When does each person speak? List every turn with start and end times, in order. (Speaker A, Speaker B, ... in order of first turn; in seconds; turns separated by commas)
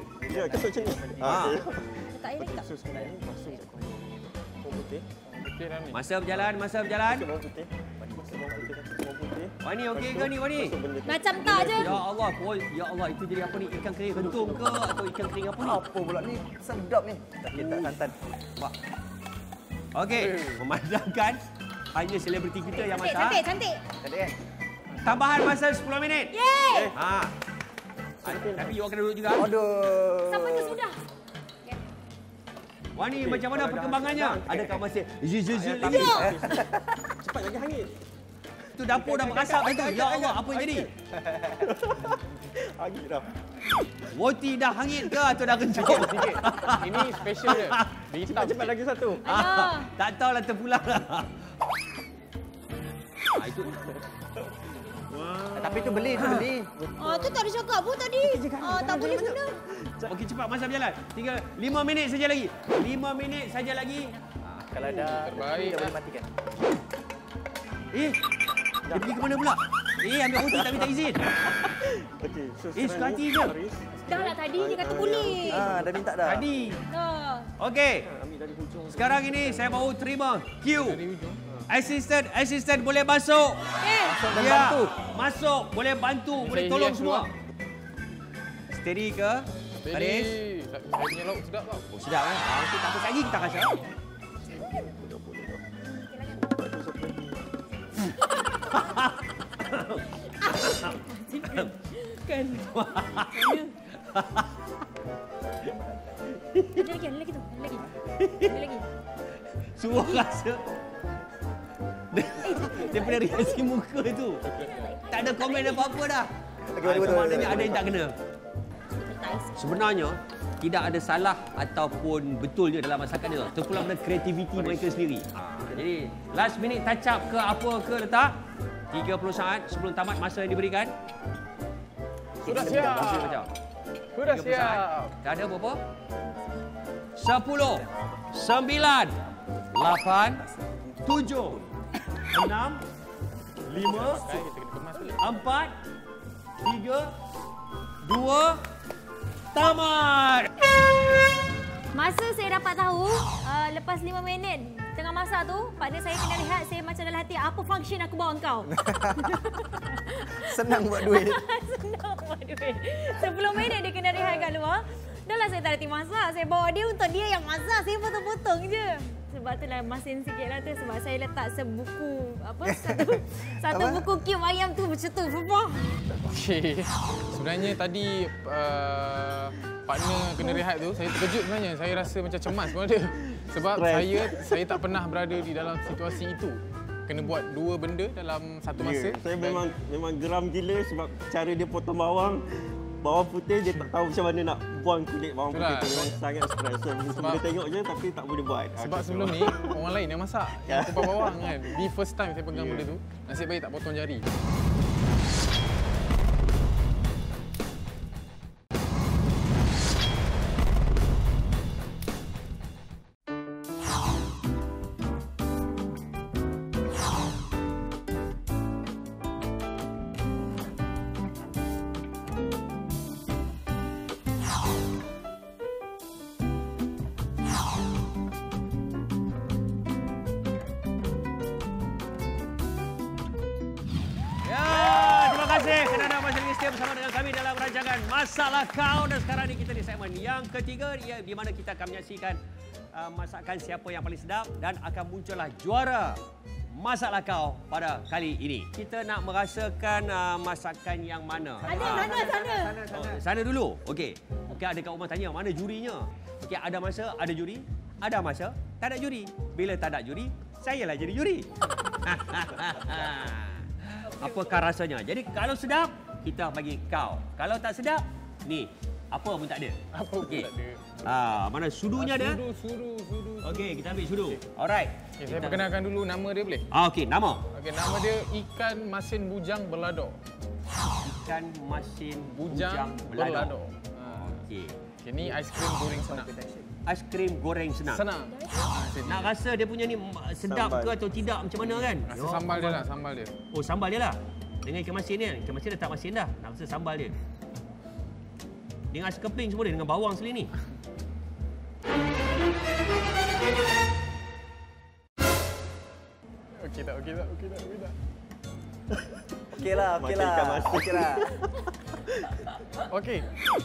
Speaker A: 0.2-1.5, Speaker B: 0.3-5.1, Speaker C: 1.2-1.6, Speaker D: 2.1-3.1, Speaker E: 5.3-6.1, Speaker C: 5.9-7.3, Speaker B: 7.0-12.1, Speaker A: 8.0-8.7, Speaker C: 9.6-10.8, Speaker D: 11.0-12.0, Speaker C: 11.6-15.8, Speaker B: 13.7-14.8, Speaker A: 15.6-18.2, Speaker B: 17.7-17.9, Speaker C: 19.9-21.4, Speaker E: 20.1-20.6, Speaker C: 21.9-23.4, Speaker D: 22.7-23.8, Speaker A: 24.0-24.4, Speaker C: 25.0-26.3, Speaker D: 26.3-26.9, Speaker B: 26.7-26.9, Speaker C: 26.9-27.3, Speaker B: 28.2-28.8, Speaker C: 28.2-29.5, Speaker A: 29.4-30.8, Speaker D: 30.3-31.0, Speaker C: 33.0-36.3, Speaker B: 33.2-34.8, Speaker B: 35.5-37.9, Speaker D: 35.8-36.4, Speaker A: 36.4-36.7, Speaker C: 38.7-40.9, Speaker B: 38.9-43.3, Speaker C: 44.1-47.9, Speaker E: 45.7-48.7, Speaker B: 48.3-49.2, Speaker D: 49.2-49.9, Speaker C: 49.3-51.4, Speaker C: 53.4-53.8, Speaker B: 55.1-57.4, Speaker A: 55.5-56.7, Speaker C: 56.2-56.5, Speaker D: 57.0-59.6, Speaker B: 58.2-60.1, Speaker C: 60.1-64.1, Speaker A: 64.7-66.3, Speaker E: 64.9-66.0, Speaker C: 67.9-68.2, Speaker B: 68.9-69.2, Speaker C: 68.9-71.2, Speaker B: 70.4-70.9, Speaker B: 71.4-76.1, Speaker C: 72.8-73.5, Speaker D: 74.1-75.7, Speaker A: 75.5-76.5, Speaker C: 76.2-76.8, Speaker D: 76.9-77.5, Speaker C: 77.6-78.1, Speaker B: 78.0-79.9, Speaker C: 78.9-81.0, Speaker E: 80.8-81.4, Speaker C: 81.7-83.6, Speaker D: 83.8-84.3, Speaker E: 84.0-84.9, Speaker C: 84.3-87.3, Speaker E: 86.4-87.3, Speaker C: 88.7-90.3, Speaker E: 89.8-91.9, Speaker C: 91.9-93.8, Speaker B: 94.7-95.6, Speaker D: 95.8-96.5, Speaker B: 96.5-97.5, Speaker C: 98.7-101.7, Speaker D: 100.4-103.8, Speaker C: 102.7-104.7, Speaker C: 106.3-106.9, Speaker D: 106.8-108.9, Speaker C: 108.2-108.6, Speaker C: 109.8-110.6, Speaker C: 112.1-114.4, Speaker D: 112.4-113.6, Speaker D: 114.5-116.0, Speaker C: 115.1-116.3, Speaker A: 116.7-117.8, Speaker C: 116.8-118.2, Speaker B: 117.0-117.7, Speaker D: 118.9-119.6, Speaker C: 119.5-128.3, Speaker C: 128.9-130.9, Speaker C: 132.4-133.5, Speaker E: 132.4-133.4, Speaker E: 134.2-135.2, Speaker C: 134.2-135.8, Speaker C: 137.2-139.2, Speaker C: 139.7-140.4, Speaker C: 141.0-141.7, Speaker C: 142.3-142.8, Speaker C: 143.7-144.3, Speaker E: 143.8-145.4, Speaker C: 145.2-145.8, Speaker C: 146.6-147.1, Speaker C: 148.0-148.6, Speaker C: 149.5-150.5, Speaker D: 151.9-175.9, Speaker A: 158.7-159.3, Speaker A: 160.4-161.4, Speaker A: 172.7-174.1, Speaker E: 176.2-189.7, Speaker B: 183.6-184.5, Speaker B: 188.8-199.8, Speaker E: 195.5-196.2, Speaker E: 197.1-197.4, Speaker E: 198.8-204.3, Speaker B: 200.6-201.9, Speaker B: 202.5-202.9, Speaker C: 234.4-242.4, Speaker C: 242.9-246.2, Speaker C: 246.7-261.5, Speaker A: 251.6-253.2, Speaker D: 251.7-252.8, Speaker C: 262.0-270.5, Speaker D: 264.1-264.6, Speaker E: 269.9-270.8, Speaker C: 271.0-272.4, Speaker E: 272.0-274.4, Speaker C: 273.4-275.7, Speaker E: 275.2-276.7, Speaker C: 276.7-277.4, Speaker E: 277.5-280.2, Speaker C: 281.0-283.5, Speaker E: 282.3-284.4, Speaker C: 284.1-284.8, Speaker E: 285.0-286.3, Speaker A: 285.7-286.7, Speaker C: 286.9-288.1, Speaker E: 287.9-289.3, Speaker D: 288.3-289.3, Speaker C: 289.1-292.9, Speaker B: 290.4-291.0, Speaker E: 291.8-293.4, Speaker C: 293.5-297.2, Speaker C: 298.9-300.5, Speaker E: 306.6-307.9, Speaker A: 309.6-311.4, Speaker B: 309.8-311.4, Speaker E: 312.9-313.3